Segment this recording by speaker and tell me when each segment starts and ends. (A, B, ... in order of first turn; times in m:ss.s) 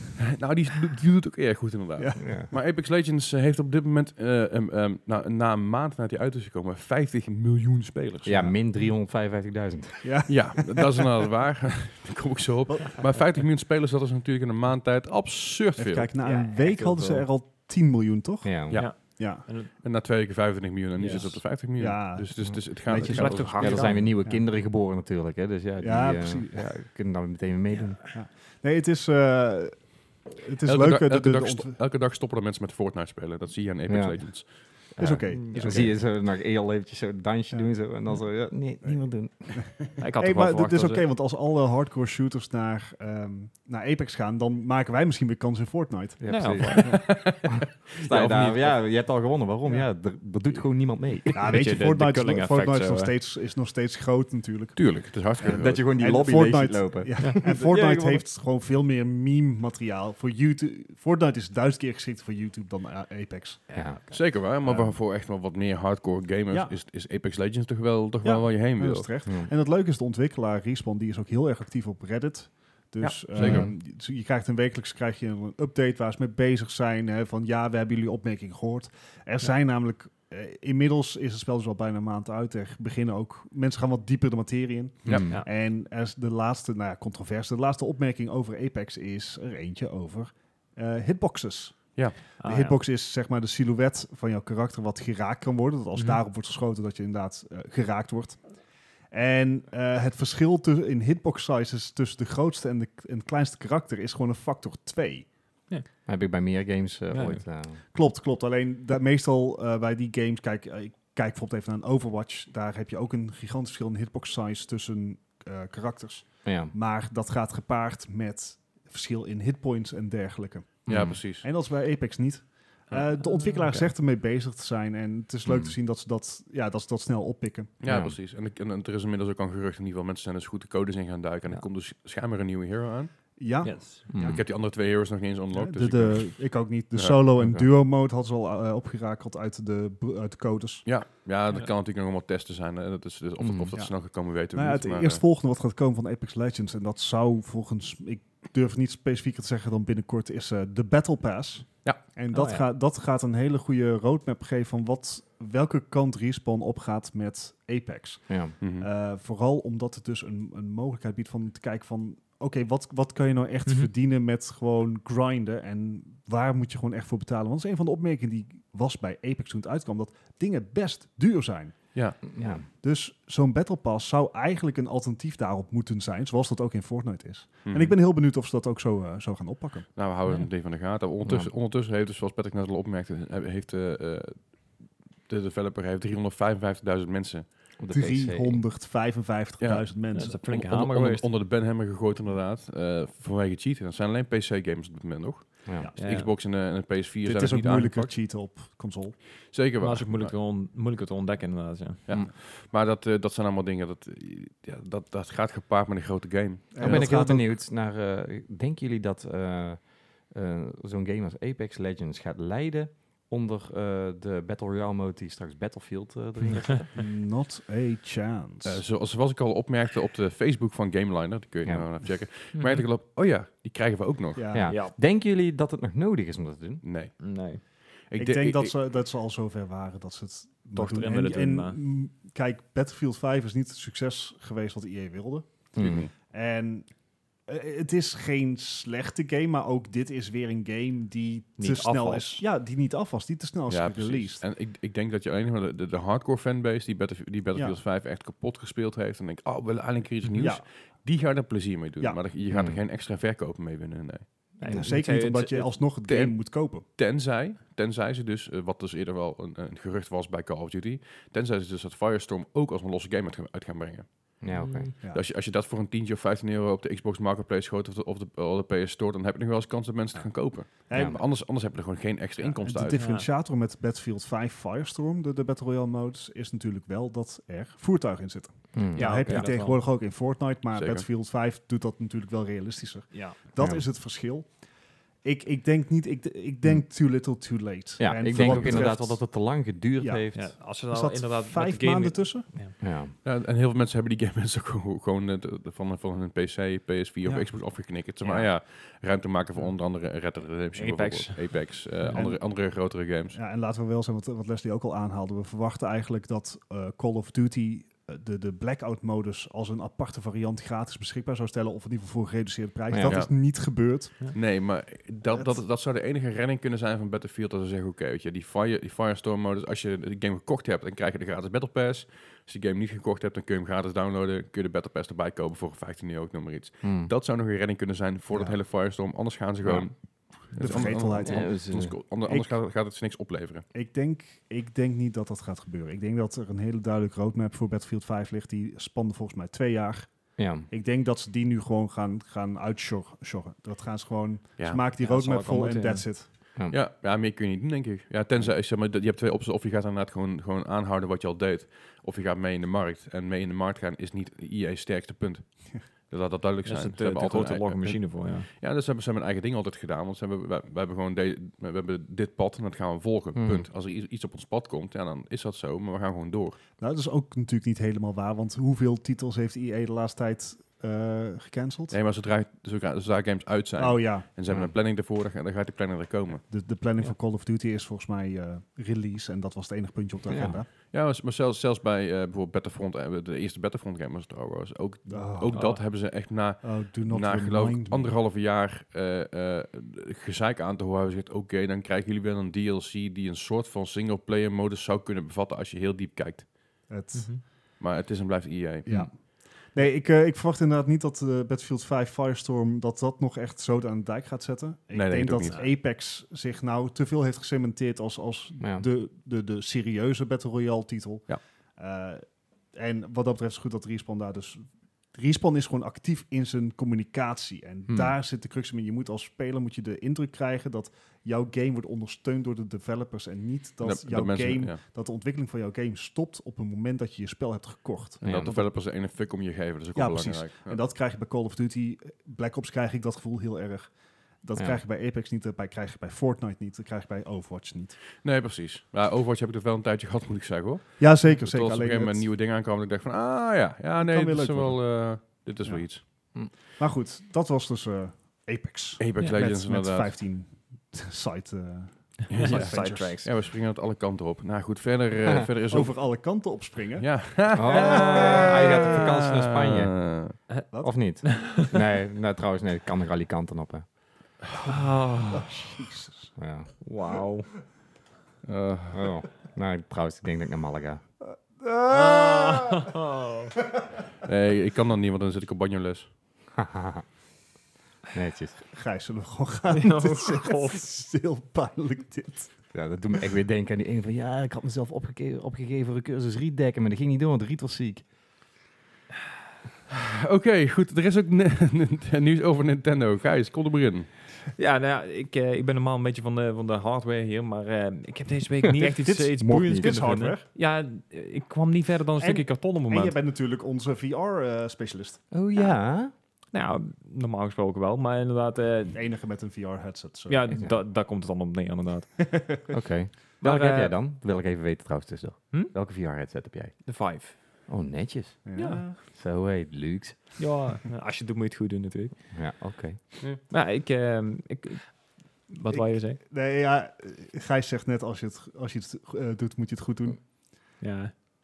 0:00.2-0:08.5 A
0:02.2-0:02.5 B
0:08.2-0:10.3 B
0:10.0-0:10.9 C
0:10.3-0:16.1 A
0:12.7-0:13.0 C
0:15.8-0:19.4 C
0:16.2-0:17.2 D
0:18.4-0:18.8 B
0:18.7-0:24.0 A
0:18.7-0:19.7 D
0:21.0-0:21.4 D
0:21.1-0:24.4 C
0:23.0-0:24.1 D
0:23.2-0:28.0 B
0:25.8-0:26.7 C
0:28.0-0:31.8 C
0:30.6-0:34.9 A
0:33.9-0:39.8 B
0:35.0-0:36.0 C
0:35.3-0:36.0 D
0:39.6-0:47.0 C
0:40.0-0:41.0 D
0:46.2-0:51.6 B
0:46.3-0:47.0 D
0:46.8-0:48.8 A
0:51.3-1:03.8 C
0:51.4-0:53.1 D
0:54.8-0:55.8 A
0:55.5-0:58.2 B
0:57.2-0:57.4 D
1:03.7-1:04.2 D
1:03.7-1:04.0 B
1:04.1-1:09.1 A
1:04.6-1:05.0 C
1:08.2-1:38.5 C
1:09.2-1:09.5 B
1:13.0-1:13.7 A
1:13.4-1:13.7 B
1:25.0-1:25.4 B
1:32.4-1:32.8 D
1:36.0-1:36.2 D
1:39.1-1:45.3 C
1:46.0-1:47.8 B
1:47.1-1:47.4 D
1:47.8-2:07.7 C
1:56.4-1:56.7 B
2:00.9-2:01.2 B
2:00.9-2:01.4 A
2:02.9-2:03.9 D
2:05.5-2:05.7 B
2:07.8-2:13.1 A
2:07.8-2:08.1 B
2:13.4-2:14.4 C
2:13.6-2:14.0 D
2:14.1-2:14.4 B
2:14.1-2:17.2 A
2:15.5-2:20.9 C
2:17.4-2:17.7 B
2:20.8-2:25.2 A
2:23.4-2:23.7 B
2:23.7-2:59.9 C
2:32.3-2:32.6 B
2:38.3-2:38.5 B
2:38.6-2:38.9 A
2:51.9-2:52.2 A
2:52.3-2:52.6 B
2:57.6-2:57.9 A
3:00.0-3:07.6 A
3:01.2-3:01.5 B
3:07.8-3:08.6 B
3:07.9-3:10.4 C
3:09.6-3:18.1 A
3:10.1-3:11.3 D
3:16.0-3:16.3 D
3:17.2-3:19.2 C
3:19.5-3:20.3 A
3:19.8-3:22.0 D
3:22.0-3:27.0 A
3:26.7-3:27.5 C
3:26.8-3:36.9 B
3:36.9-3:38.8 C
3:38.6-3:44.4 A
3:41.6-3:41.9 B
3:42.5-3:42.8 D
3:44.3-3:44.7 C
3:44.5-3:46.8 B
3:44.7-3:44.9 D
3:46.8-3:48.7 A
3:47.2-3:47.6 D
3:48.1-4:04.4 C
3:50.7-3:51.8 D
3:55.7-3:56.1 B
3:55.8-3:56.1 A
4:01.6-4:02.4 D
4:03.7-4:14.5 A
4:07.5-4:07.8 C
4:10.4-4:10.6 C
4:12.5-4:12.8 B
4:14.6-4:15.8 D
4:14.7-4:16.8 C
4:16.0-4:24.4 A
4:24.4-4:24.9 B
4:24.5-4:24.9 D
4:25.1-4:33.0 A
4:30.9-4:31.2 C
4:30.9-4:31.2 B
4:32.4-4:44.6 C
4:33.0-4:33.3 D
4:38.7-4:39.4 B
4:38.9-4:39.8 D
4:40.7-4:41.0 A
4:43.1-4:43.4 D
4:43.6-4:43.8 B
4:45.2-4:49.3 C
4:48.0-4:50.5 B
4:48.3-4:48.8 A
4:50.0-4:52.5 C
4:50.3-4:52.8 D
4:52.8-4:53.1 B
4:53.2-5:03.4 A
4:57.2-4:57.5 C
5:00.8-5:02.2 D
5:02.1-5:02.7 C
5:03.3-5:14.3 C
5:12.9-5:13.2 B
5:13.0-5:13.3 A
5:14.3-5:33.6 A
5:15.3-5:15.6 C
5:26.8-5:27.1 B
5:29.6-5:29.9 B
5:30.5-5:32.6 C
5:31.2-5:32.0 B
5:33.7-5:46.3 C
5:40.4-5:40.7 B
5:45.0-5:46.1 D
5:46.7-6:06.6 A
5:56.6-5:58.5 D
6:03.4-6:03.7 B
6:06.8-6:12.0 C
6:11.9-6:16.4 A
6:13.8-6:14.3 C
6:16.5-6:20.7 C
6:20.3-6:20.6 B
6:20.9-6:36.7 A
6:25.1-6:25.8 C
6:25.5-6:25.8 D
6:26.6-6:28.1 C
6:36.9-6:37.4 C
6:37.1-6:37.4 D
6:37.8-6:39.2 A
6:38.8-7:08.6 C
6:44.9-6:45.6 A
6:48.6-6:48.8 B
6:57.9-6:58.1 B
7:03.8-7:04.8 A
7:08.2-7:08.6 B
7:08.2-7:10.8 A
7:09.9-7:18.0 C
7:18.2-7:26.0 A
7:21.0-7:22.3 C
7:24.0-7:25.0 C
7:25.6-7:33.2 C
7:29.0-7:30.1 A
7:32.3-7:36.1 A
7:32.3-7:33.3 D
7:35.7-7:38.7 C
7:37.0-7:40.4 A
7:37.5-7:40.0 B
7:40.8-7:43.8 B
7:41.2-7:41.5 D
7:44.6-7:45.6 D
7:45.3-7:46.3 C
7:46.4-7:46.7 B
7:46.8-7:47.5 D
7:48.4-7:49.1 A
7:48.9-7:51.0 B
7:51.3-7:52.9 C
7:51.9-7:53.6 D
7:54.2-7:56.1 A
7:56.5-7:57.0 B
7:58.1-7:58.6 B
7:58.7-8:02.7 C
7:59.7-8:00.8 D
8:02.7-8:08.0 B
8:09.9-8:14.1 A
8:14.5-8:23.1 D
8:18.8-8:20.4 C
8:19.5-8:20.1 B
8:22.2-8:25.2 C
8:25.3-8:26.1 B
8:26.5-8:29.0 D
8:28.9-8:30.6 C
8:30.3-8:32.7 D
8:32.7-8:36.9 B
8:33.4-8:33.9 D
8:36.8-8:37.4 D
8:37.7-8:40.4 B
8:38.4-8:39.0 C
8:38.6-8:38.8 D
8:40.4-8:42.3 D
8:42.3-8:43.0 B
8:43.5-8:46.2 D
8:45.7-8:50.2 C
8:50.8-8:51.1 D